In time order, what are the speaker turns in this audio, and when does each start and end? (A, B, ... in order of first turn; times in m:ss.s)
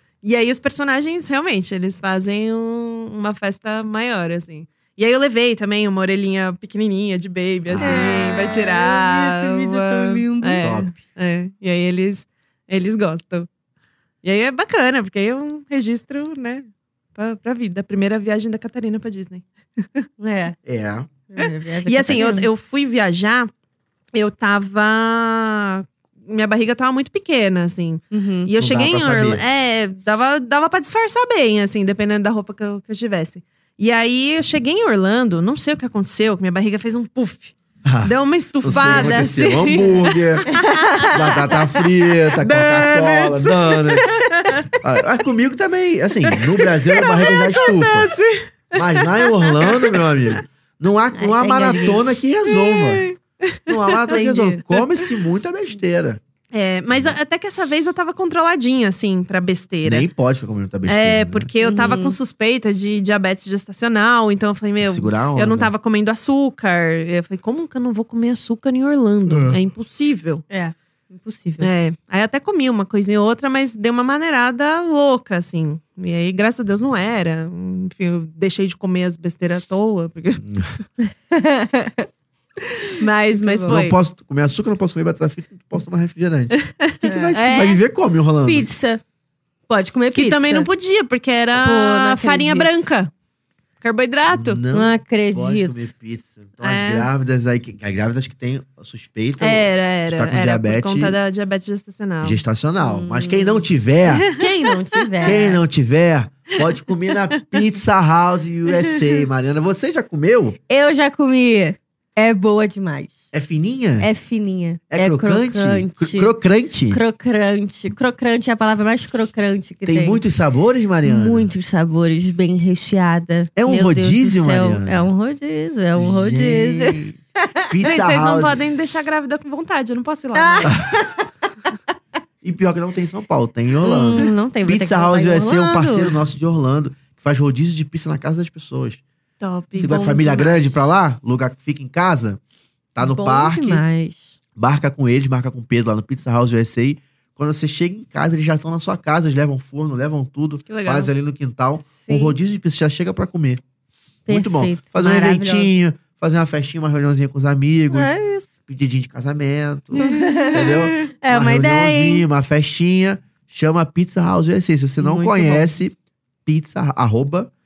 0:00.2-0:13.5 A
0:07.6-0:08.4 B
0:07.8-0:10.7 C
0:10.6-0:11.0 B
0:14.2-0:20.1 A
0:20.2-0:20.6 C
0:20.6-0:21.1 B
0:21.3-0:22.5 C
0:21.4-0:23.5 A
0:24.1-0:41.2 A
0:28.1-0:28.5 C
0:28.6-0:29.4 B
0:37.8-0:48.1 B
0:40.9-0:41.1 C
0:42.4-0:44.7 A
0:46.2-0:50.4 A
0:48.7-0:53.1 B
0:51.1-0:52.1 C
0:52.4-0:55.1 A
0:53.7-0:56.2 B
0:54.1-0:54.6 C
0:56.5-1:00.1 A
0:56.9-0:57.2 B
0:59.8-1:01.5 B
1:00.8-1:10.4 A
1:01.6-1:02.2 C
1:04.8-1:05.7 B
1:09.3-1:09.6 B
1:10.5-1:11.7 C
1:11.6-1:20.6 A
1:21.1-1:22.1 C
1:22.8-1:24.0 A
1:23.3-1:23.8 C
1:23.6-1:28.7 B
1:26.6-1:27.8 A
1:27.0-1:27.4 C
1:28.4-1:29.0 C
1:29.7-1:30.7 C
1:30.1-1:33.1 A
1:31.5-1:32.8 C
1:33.8-1:34.6 A
1:34.3-1:41.2 B
1:34.7-1:35.9 C
1:36.6-1:37.1 A
1:39.4-1:42.4 A
1:42.2-1:44.3 B
1:42.8-1:43.6 C
1:44.0-1:45.4 A
1:44.3-1:45.6 C
1:45.2-1:50.6 B
1:46.5-1:47.6 A
1:48.7-1:49.2 A
1:50.7-1:53.2 C
1:53.3-1:54.1 B
1:54.0-1:56.3 C
1:54.9-1:57.0 B
1:56.9-2:00.2 C
1:59.8-2:01.5 B
2:01.0-2:07.6 C
2:03.6-2:05.1 B
2:06.0-2:08.6 B
2:07.8-2:10.8 A
2:10.3-2:11.2 C
2:10.6-2:11.0 B
2:12.4-2:19.0 B
2:13.8-2:16.2 C
2:19.4-2:20.0 A
2:19.7-2:22.4 B
2:19.8-2:20.8 C
2:22.9-2:23.8 B
2:23.0-2:24.4 C
2:24.6-2:33.6 B
2:30.7-2:31.1 A
2:32.0-2:32.4 C
2:34.3-2:35.7 C
2:34.3-2:38.1 B
2:37.9-2:38.5 C
2:38.7-2:45.9 B
2:39.9-2:41.1 A
2:40.0-2:42.2 C
2:45.0-2:45.7 C
2:46.4-2:47.5 B